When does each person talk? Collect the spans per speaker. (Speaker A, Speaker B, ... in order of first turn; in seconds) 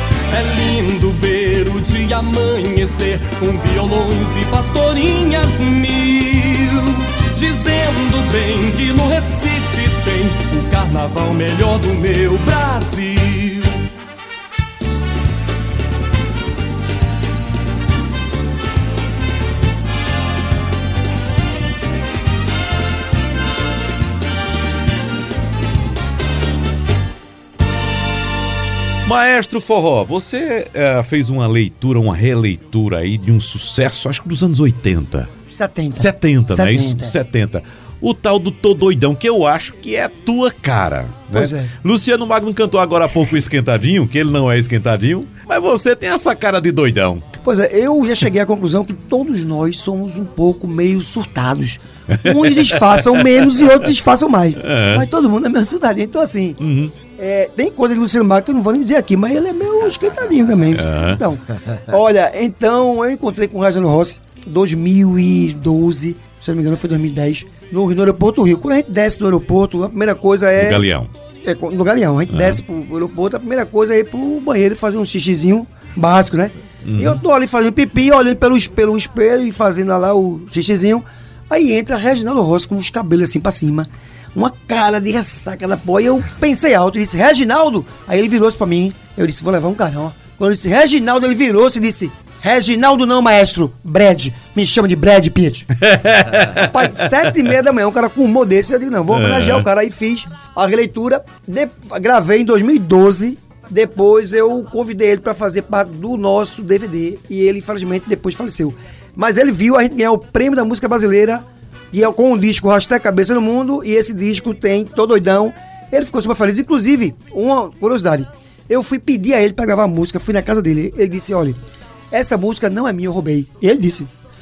Speaker A: 0.3-13.8
Speaker B: 29.0-35.3, 36.0-47.2, 52.1-53.7, 54.6-55.1, 56.6-56.9, 60.7-61.2, 70.5-71.1, 72.3-72.6, 76.8-77.2, 95.8-97.3, 99.1-99.7
Speaker C: 35.5-37.1, 41.3-41.7, 47.4-56.6, 57.2-70.8, 71.4-95.7, 96.5-121.6, 122.1-124.1